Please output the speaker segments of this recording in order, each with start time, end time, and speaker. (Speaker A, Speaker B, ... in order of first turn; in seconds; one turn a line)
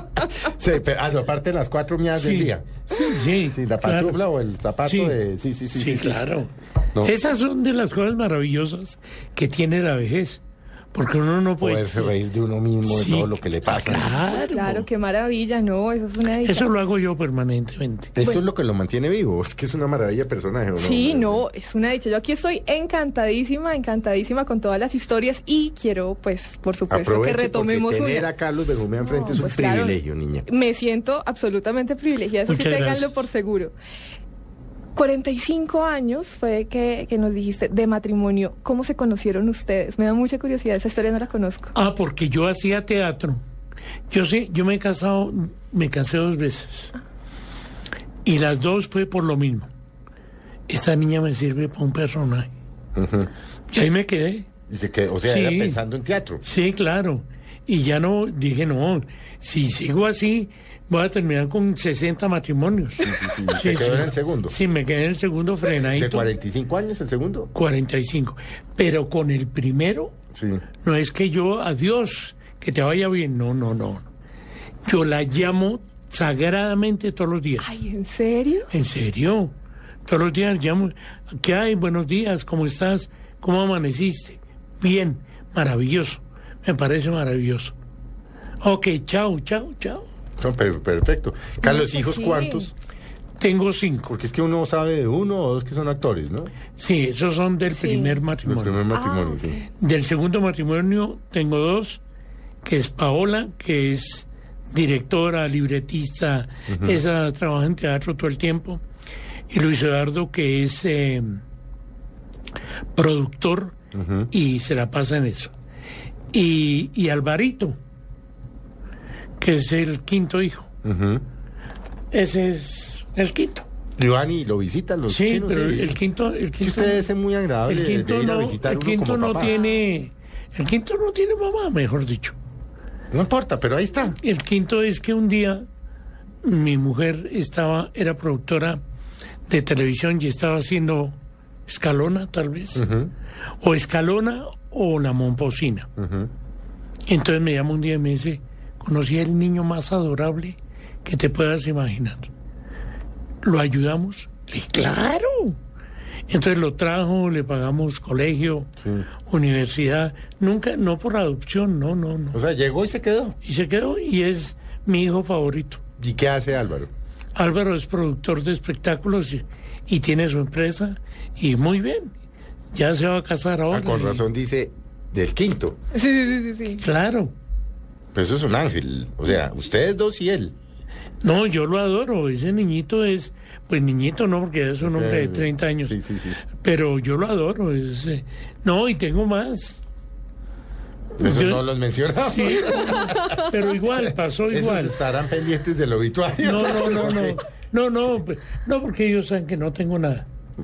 Speaker A: 0.4-2.9
Speaker B: 2.1-4.2
Speaker A: 3.4-6.2
Speaker B: 4.8-5.2
Speaker B: 5.7-10.4
Speaker B: 10.9-12.2
Speaker A: 11.6-14.8
Speaker B: 12.8-14.8
Speaker C: 14.3-16.7
Speaker B: 16.4-18.1
Speaker A: 18.2-21.4
Speaker C: 20.8-28.3
Speaker A: 26.9-30.5
Speaker C: 29.0-33.7
Speaker B: 32.5-33.1
Speaker C: 35.0-41.7
Speaker B: 41.7-43.4
Speaker B: 44.1-46.9
Speaker B: 48.2-49.7
Speaker B: 50.7-52.5
Speaker A: 53.0-53.3
Speaker B: 53.7-54.5
Speaker A: 54.7-56.4
Speaker B: 55.2-55.8
Speaker B: 56.4-66.3
Speaker A: 63.0-64.6
Speaker A: 65.9-67.5
Speaker B: 67.5-70.1
Speaker A: 70.3-70.7
Speaker B: 70.8-74.1
Speaker B: 74.9-77.8
Speaker C: 77.6-78.7
Speaker B: 78.7-79.5
Speaker B: 80.1-87.7
Speaker B: 88.6-90.1
Speaker A: 90.4-92.7
Speaker C: 91.6-92.7
Speaker B: 93.4-94.1
Speaker A: 94.1-96.5
Speaker B: 96.8-98.8
Speaker C: 97.7-98.2
Speaker A: 98.5-99.6
Speaker C: 98.9-99.7
Speaker B: 99.8-102.0
Speaker B: 102.6-108.8
Speaker A: 106.7-107.0
Speaker B: 109.5-111.4
Speaker B: 113.0-113.7
Speaker A: 113.9-114.3
Speaker B: 114.3-115.5
Speaker B: 116.3-117.8
Speaker B: 119.4-120.7
Speaker A: 120.8-121.2
Speaker B: 122.1-123.7
Speaker A: 124.0-126.0
Speaker B: 125.1-127.1
Speaker A: 126.6-129.6
Speaker B: 127.7-132.4
Speaker A: 133.1-134.2
Speaker B: 134.2-135.7
Speaker B: 136.4-138.8
Speaker B: 139.5-142.8
Speaker A: 142.8-143.1
Speaker B: 143.6-145.9
Speaker A: 146.0-146.3
Speaker B: 147.1-152.3
Speaker B: 153.4-155.6
Speaker B: 156.3-158.7
Speaker B: 159.3-162.4
Speaker A: 162.3-163.4
Speaker B: 163.4-165.8
Speaker A: 166.0-166.9
Speaker B: 167.3-172.1
Speaker B: 172.7-174.2
Speaker A: 173.7-175.8
Speaker C: 175.9-176.8
Speaker B: 176.8-177.3
Speaker A: 178.2-180.5
Speaker B: 181.2-186.0
Speaker A: 184.8-186.4
Speaker B: 186.5-189.8
Speaker A: 191.2-193.5
Speaker B: 191.2-195.0
Speaker A: 194.5-197.4
Speaker B: 196.4-200.2